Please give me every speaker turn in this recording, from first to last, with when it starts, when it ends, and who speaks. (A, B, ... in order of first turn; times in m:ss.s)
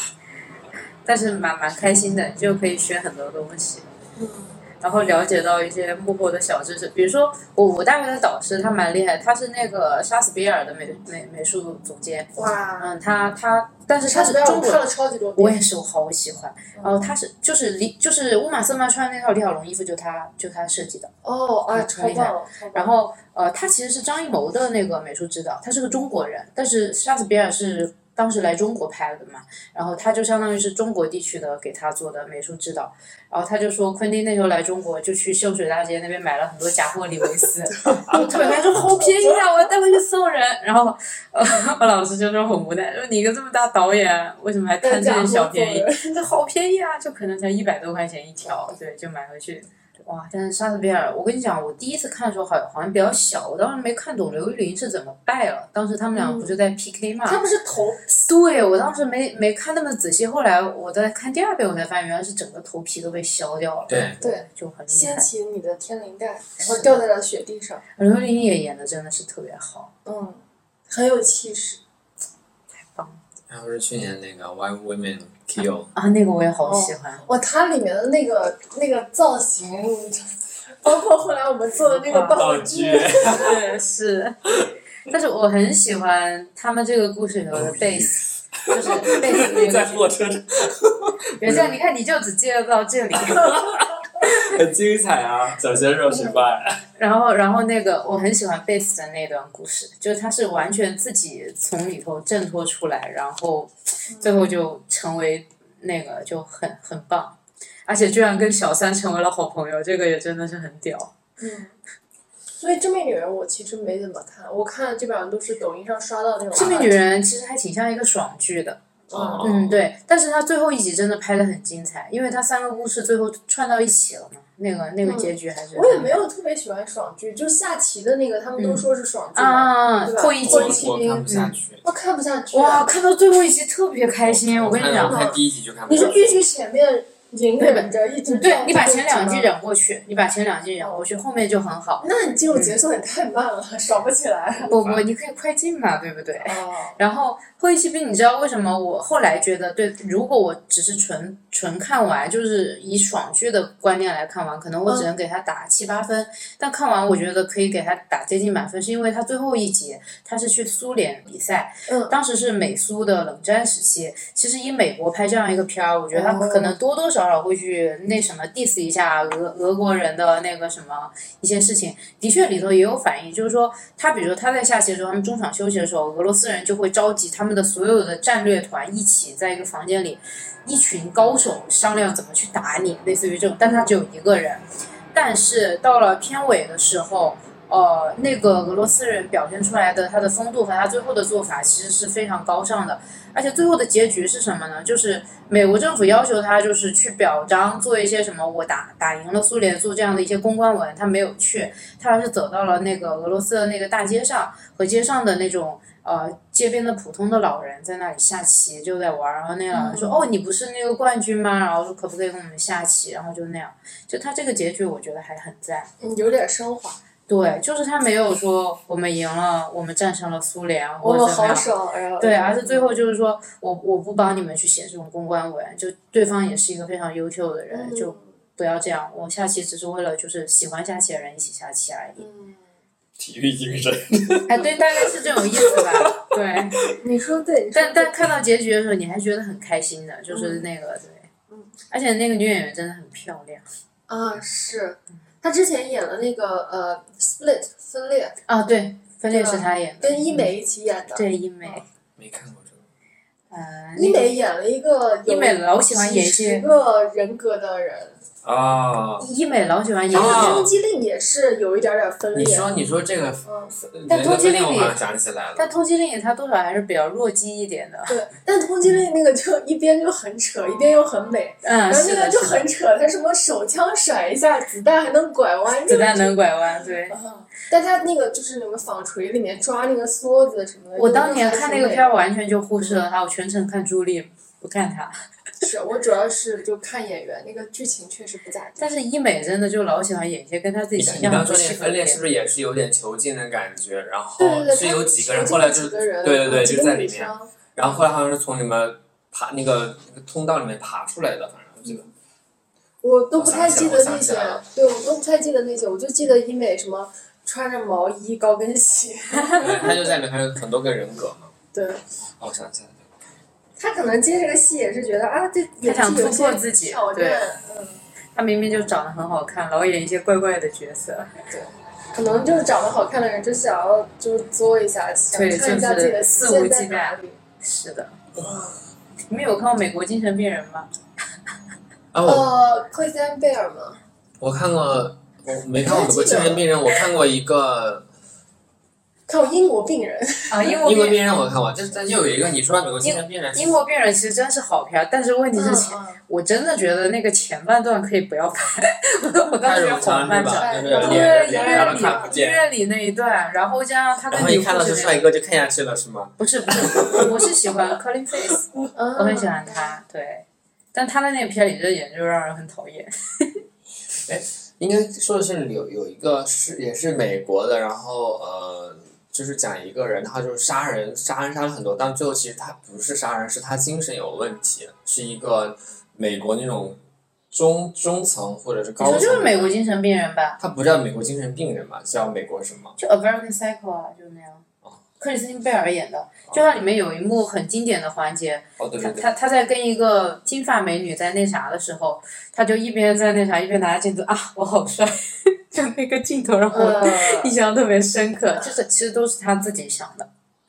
0:01.0-0:03.9 A
0:04.2-0:04.6 B
0:04.8-0:14.8 A
0:12.4-0:12.9 B
0:14.1-0:15.6 B
0:15.4-0:21.1 A
0:21.2-0:22.9 B
0:21.7-0:57.4 A
0:38.1-0:39.4 B
0:44.8-0:46.3 B
0:56.1-0:56.6 B
0:57.2-0:58.2 B
0:58.2-1:05.3 A
1:03.9-1:04.2 C
1:04.2-1:07.8 B
1:06.6-1:07.0 A
1:08.0-1:09.9 A
1:10.0-1:11.8 B
1:12.8-1:13.2 A
1:13.5-1:15.9 C
1:15.6-1:17.2 A
1:16.6-1:20.3 B
1:20.8-1:23.5 B
1:21.8-1:22.4 A
1:22.4-1:23.5 C
1:23.2-1:24.4 A
1:25.1-1:28.2 A
1:27.5-1:31.8 C
1:28.7-1:30.1 A
1:31.4-1:33.6 A
1:33.2-1:36.8 C
1:36.1-1:36.4 B
1:37.0-1:51.1 A
1:44.1-1:44.5 B
1:51.4-1:51.7 B
1:52.6-1:56.9 B
1:56.5-1:58.8 A
1:59.1-1:59.5 B
1:59.1-1:59.8 C
1:59.4-2:06.2 A
2:05.0-2:10.9 B
2:08.6-2:08.8 A
2:09.3-2:11.5 A
2:10.4-2:11.8 C
2:11.8-2:12.9 B
2:12.5-2:15.2 A
2:14.2-2:16.2 C
2:14.9-2:19.5 B
2:17.6-2:22.8 A
2:20.8-2:21.0 B
2:22.0-2:24.7 B
2:24.6-2:25.0 C
2:24.7-3:35.9 A
2:26.4-2:27.0 B
2:41.9-2:42.1 B
2:46.1-2:46.8 B
3:03.6-3:03.9 B
3:29.7-3:30.2 B
3:36.0-3:37.0 B
3:37.3-3:41.7 A
3:41.0-3:43.0 B
3:42.2-3:52.2 A
3:47.7-3:48.2 B
3:52.2-3:52.6 B
3:53.2-3:54.7 C
3:54.4-3:56.8 A
3:55.6-3:56.9 C
3:56.9-3:58.2 B
3:57.7-4:01.3 A
4:00.3-4:00.6 B
4:01.9-4:03.6 A
4:04.1-4:08.4 B
4:08.5-4:10.5 A
4:09.3-4:11.8 B
4:11.1-4:11.8 A
4:12.2-4:12.8 C
4:13.5-4:14.4 A
4:13.9-4:18.2 B
4:15.3-4:16.6 A
4:18.4-4:19.2 C
4:19.2-4:20.6 A
4:20.1-4:22.7 B
4:20.1-4:20.7 C
4:22.3-4:25.7 C
4:23.4-4:23.7 B
4:24.1-4:25.0 A
4:25.6-4:28.2 A
4:28.1-4:36.4 B
4:31.6-4:32.6 A
4:35.8-4:37.2 A
4:37.1-4:42.1 B
4:41.0-4:45.2 A
4:45.6-4:48.8 B
4:48.8-4:52.2 A
4:51.0-5:02.1 C
4:54.4-4:57.5 B
5:03.0-5:10.1 B
5:03.4-5:04.6 C
5:09.6-5:11.5 C
5:11.7-5:12.0 B
5:12.4-5:13.0 C
5:13.8-5:18.0 B
5:15.8-5:17.4 A
5:18.3-5:21.3 A
5:21.5-5:27.4 B
5:25.3-5:28.2 A
5:28.4-5:28.8 B
5:29.3-5:30.9 A
5:32.1-5:32.5 C
5:32.2-5:34.0 B
5:34.4-5:38.1 C
5:35.8-5:36.7 B
5:39.3-5:40.8 B
5:40.5-5:41.2 A
5:40.8-5:43.8 C
5:43.0-5:55.2 A
5:45.5-5:46.2 B
5:49.6-5:52.7 C
5:50.3-5:52.3 B
5:54.3-5:57.3 C
5:56.4-6:03.5 A
5:58.9-6:00.0 B
6:04.1-6:17.0 C
6:17.5-6:19.8 C
6:19.0-6:20.6 A
6:20.6-6:23.0 C
6:23.0-6:24.6 A
6:25.2-6:40.3 A
6:26.5-6:26.8 C
6:28.8-6:29.3 C
6:36.7-6:37.5 B